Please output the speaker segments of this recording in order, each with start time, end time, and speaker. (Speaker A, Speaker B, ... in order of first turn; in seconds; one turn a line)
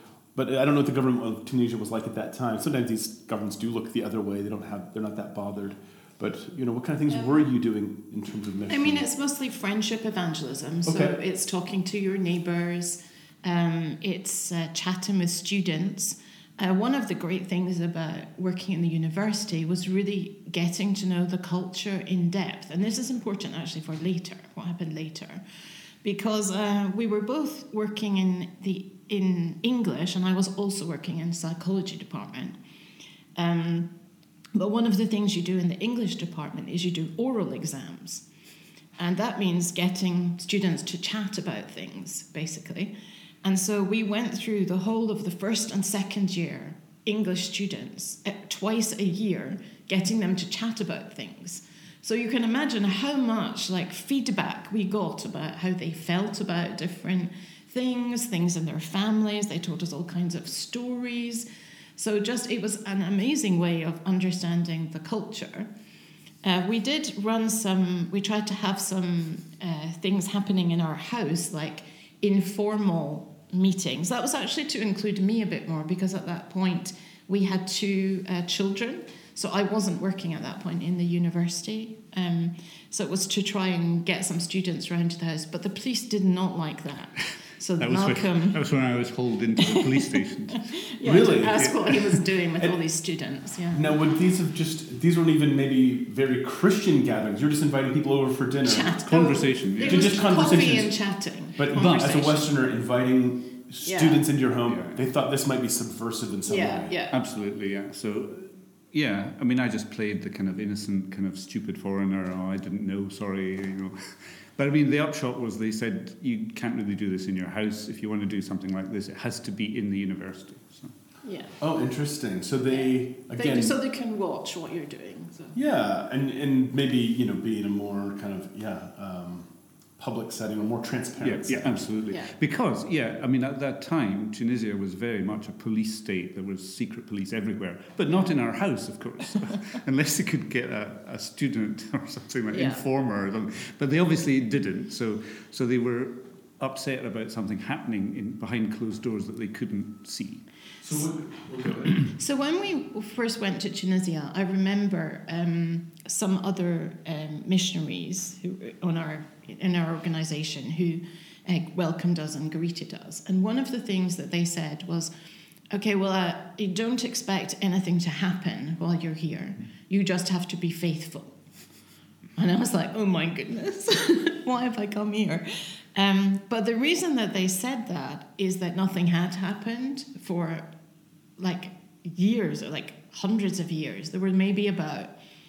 Speaker A: 0.3-9.0
Speaker B: 8.7-25.4
Speaker A: 10.8-11.2
Speaker B: 26.0-32.5
Speaker B: 33.4-33.9
Speaker B: 34.5-38.2
Speaker B: 39.0-42.9
Speaker B: 43.4-61.5
Speaker B: 62.0-65.7
Speaker B: 66.4-88.6
Speaker C: 87.8-90.7
Speaker B: 89.6-93.9
Speaker A: 91.0-91.7
Speaker A: 93.7-98.9
Speaker B: 98.6-102.4
Speaker C: 99.1-100.2
Speaker A: 99.8-100.9
Speaker A: 101.5-106.9
Speaker B: 103.8-104.2
Speaker C: 104.7-105.0
Speaker B: 106.5-107.1
Speaker C: 107.1-114.0
Speaker C: 114.6-120.9
Speaker B: 121.2-121.5
Speaker A: 121.6-123.7
Speaker B: 122.7-125.6
Speaker A: 125.5-131.9
Speaker C: 131.2-150.5
Speaker B: 142.5-142.8
Speaker A: 150.8-152.0
Speaker B: 152.1-165.1
Speaker B: 165.7-171.3
Speaker B: 172.4-180.6
Speaker B: 181.4-185.1